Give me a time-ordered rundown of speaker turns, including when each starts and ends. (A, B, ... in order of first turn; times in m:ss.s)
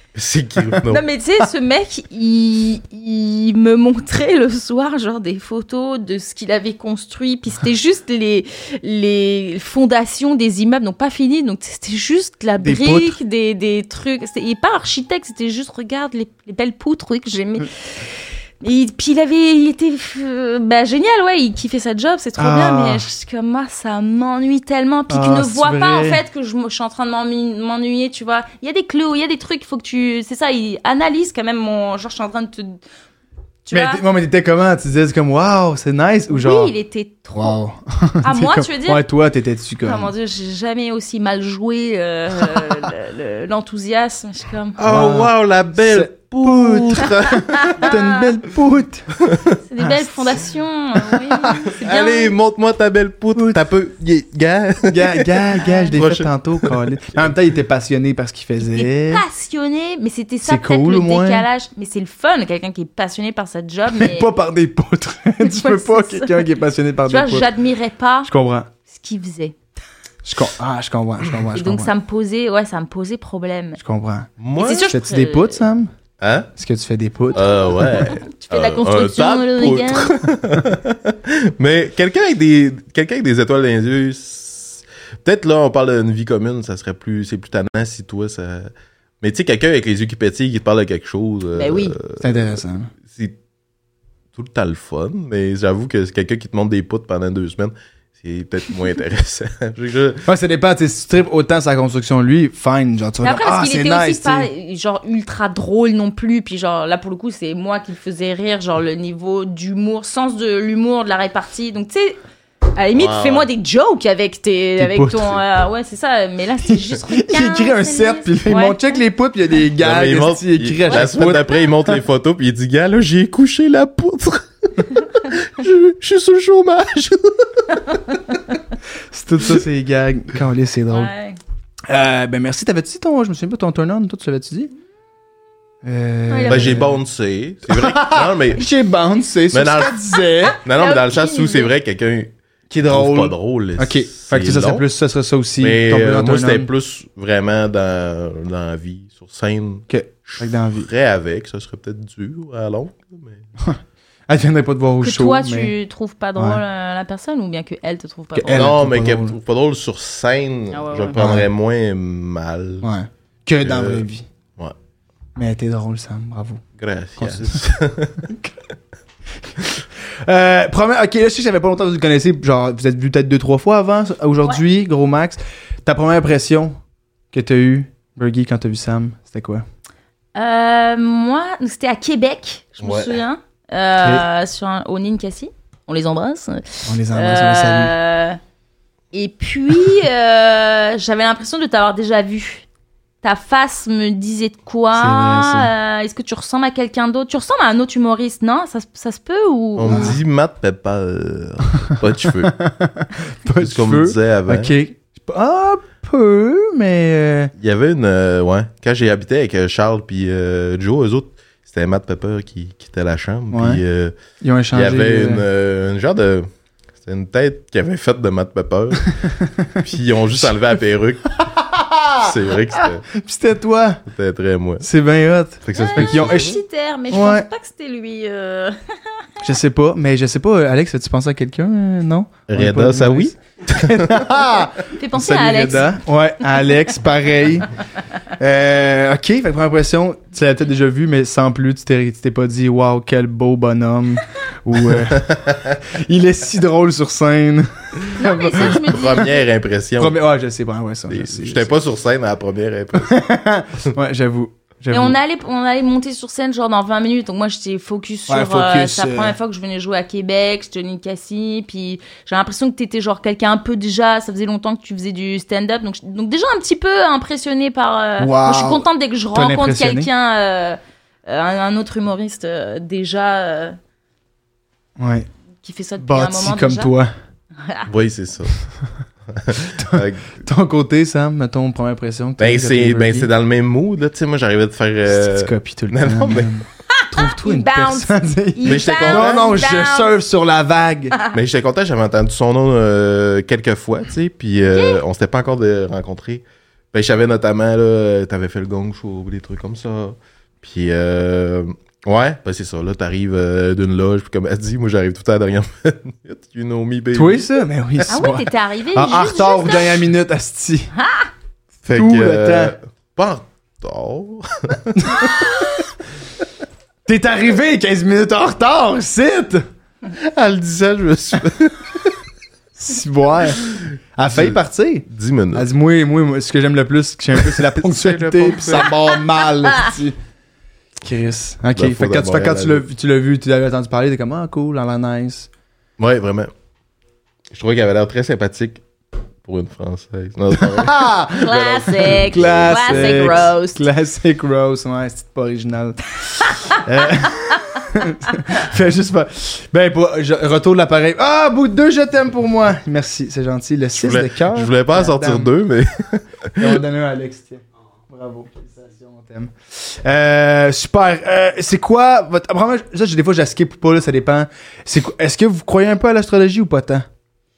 0:00.1-0:01.0 A
0:00.9-0:32.8 B
0:12.6-0:13.2 C
0:22.4-0:23.0 C
0:25.1-0:26.2 C
0:33.6-0:34.0 B
0:33.7-0:36.7 C
0:36.3-0:37.6 B
0:37.3-0:40.1 C
0:38.2-0:39.0 B
0:39.8-0:44.8 B
0:44.8-0:47.9 A
0:44.8-0:49.2 C
0:47.5-0:48.2 B
0:49.6-0:52.3 B
0:49.8-0:50.4 C
0:51.1-0:51.6 C
0:51.6-0:57.3 A
0:53.4-0:53.6 C
0:54.8-0:59.2 C
0:55.6-0:55.9 B
0:58.6-1:04.3 B
1:00.4-1:01.4 C
1:03.9-1:07.5 C
1:05.4-1:06.4 B
1:07.1-1:08.3 B
1:08.2-1:08.7 C
1:08.9-1:09.5 B
1:10.2-1:11.9 C
1:11.5-1:13.8 B
1:13.8-1:15.9 C
1:14.4-1:14.9 A
1:14.6-1:15.6 B
1:16.2-1:16.5 A
1:16.5-1:17.5 C
1:17.3-1:32.5 A
1:17.8-1:20.2 B
1:31.6-1:32.0 B
1:32.2-1:32.9 C
1:33.1-1:33.4 A
1:34.3-1:40.2 A
1:40.2-1:44.5 C
1:43.2-1:52.2 B
1:52.7-1:59.0 B
1:52.9-1:53.5 A
1:54.8-1:55.4 C
1:56.6-2:02.0 C
1:59.8-2:08.0 A
2:07.9-2:08.4 B
2:09.1-2:11.1 C
2:10.9-2:11.4 B
2:11.9-2:14.7 C
2:15.8-2:17.0 C
2:16.3-2:16.8 B
2:16.5-2:18.6 A
2:17.7-2:20.6 C
2:19.5-2:20.0 A
2:20.6-2:22.3 A
2:20.7-2:21.7 B
2:22.7-2:26.7 C
2:22.9-2:24.8 A
2:25.6-2:33.4 A
2:29.9-2:30.9 C
2:33.6-2:35.7 C
2:35.0-2:38.7 B
2:36.4-2:36.6 C
2:38.3-2:39.4 C
2:38.5-2:42.9 A
2:40.7-2:41.2 B
2:41.1-2:41.5 C
2:42.8-2:44.2 C
2:43.6-2:44.0 A
2:45.4-2:46.6 C
2:46.8-2:48.2 A
2:47.2-2:47.6 C
2:48.2-2:48.5 C
2:50.2-2:56.8 C
2:57.3-2:59.6 C
3:00.3-3:08.4 B
3:02.8-3:03.2 A
3:04.0-3:04.2 C
3:06.8-3:07.9 C
3:09.1-3:12.6 B
3:13.2-3:20.2 B
3:14.9-3:15.7 C
3:19.8-3:22.6 A
3:19.8-3:20.2 C
3:21.8-3:27.5 C
3:23.6-3:24.7 A
3:27.6-3:34.2 A
3:33.5-3:33.8 C
3:34.4-3:35.4 C
3:34.7-3:36.5 A
3:37.0-3:39.2 A
3:39.3-3:39.8 C
3:39.8-3:41.4 A
3:41.4-3:44.0 C
3:42.2-3:43.1 A
3:44.1-3:44.9 A
3:44.8-3:47.5 C
3:45.6-3:46.6 A
3:45.7-3:48.8 B
3:49.4-3:57.7 C
3:52.5-3:54.2 A
3:54.9-3:56.0 B
3:58.4-4:08.9 C
4:05.0-4:05.8 A
4:08.2-4:09.4 B
4:08.2-4:10.2 A
4:10.0-4:11.7 C
4:11.1-4:13.2 A
4:12.9-4:15.2 C
4:14.9-4:33.8 B
4:18.3-4:19.4 C
4:28.2-4:30.1 C
4:35.0-4:35.3 C
4:35.6-4:36.9 B
4:36.0-4:37.1 C
4:37.6-4:37.9 B
4:37.9-4:38.6 A
4:39.3-4:40.4 A
4:39.8-4:43.3 C
4:42.4-4:46.5 A
4:45.1-4:51.1 C
4:46.9-4:50.1 B
4:48.6-4:49.6 A
4:51.3-5:08.0 A
4:54.7-4:55.0 B
5:07.1-5:10.9 C
5:08.1-5:10.0 B
5:11.0-5:11.3 B
5:11.8-5:15.5 A
5:11.9-5:12.7 C
5:15.0-5:15.3 C
5:17.0-5:19.6 C
5:20.1-5:22.2 A
5:22.8-5:30.2 C
5:23.7-5:25.6 A
5:27.5-5:29.1 A
5:31.0-5:35.5 C
5:31.7-5:32.8 A
5:36.0-5:36.5 A
5:37.5-5:38.8 A
5:39.4-5:43.4 A
5:40.5-5:55.5 C
5:41.4-5:43.8 B
5:54.0-5:56.8 A
5:56.6-6:07.0 C